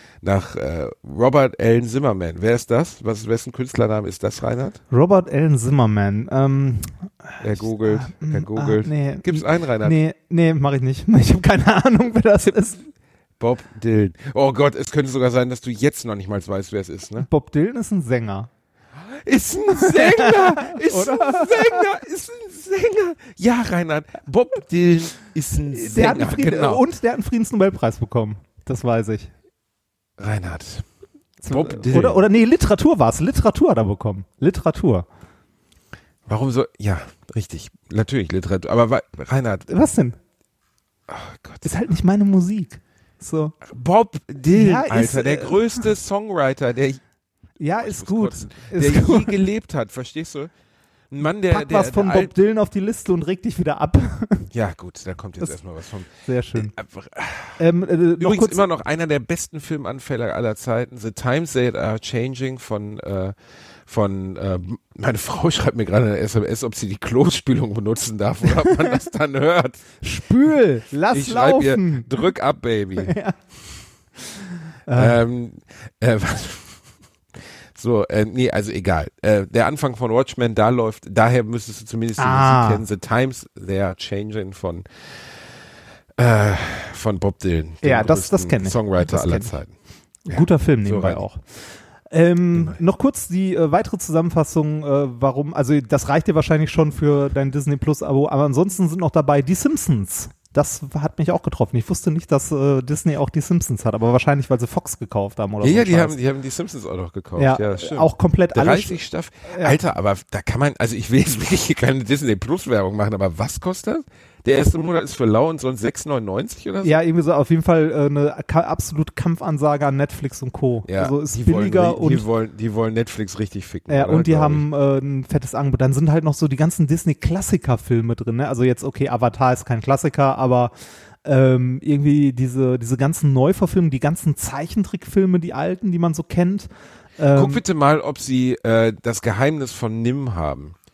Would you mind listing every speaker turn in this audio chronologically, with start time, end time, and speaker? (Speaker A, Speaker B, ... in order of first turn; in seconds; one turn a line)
Speaker A: 0.2-4.8
Speaker B: 4.9-12.9
Speaker A: 7.4-10.0
Speaker A: 13.4-17.3
Speaker B: 17.2-18.5
Speaker A: 18.9-26.8
Speaker B: 19.7-21.9
Speaker B: 25.7-29.3
Speaker A: 30.2-30.9
Speaker A: 31.4-32.2
Speaker B: 31.4-35.1
Speaker A: 36.3-39.7
Speaker B: 39.7-40.2
Speaker A: 41.1-41.7
Speaker B: 41.6-43.6
Speaker A: 43.6-47.0
Speaker B: 44.5-45.9
Speaker B: 47.6-49.5
Speaker A: 47.8-50.5
Speaker A: 51.1-52.3
Speaker B: 51.5-54.5
Speaker A: 54.5-57.6
Speaker B: 56.2-56.8
Speaker B: 57.6-58.7
Speaker A: 58.2-63.4
Speaker A: 63.9-69.8
Speaker B: 68.5-68.9
Speaker B: 70.0-72.2
Speaker A: 71.1-73.2
Speaker B: 73.0-73.4
Speaker B: 74.9-75.2
Speaker A: 74.9-76.8
Speaker A: 77.8-84.8
Speaker B: 82.2-82.9
Speaker A: 86.2-89.7
Speaker B: 87.8-89.6
Speaker B: 90.3-106.2
Speaker A: 90.3-91.2
Speaker A: 105.6-117.0
Speaker B: 107.4-109.8
Speaker B: 116.8-122.3
Speaker A: 120.9-124.7
Speaker B: 123.9-137.6
Speaker A: 137.3-140.8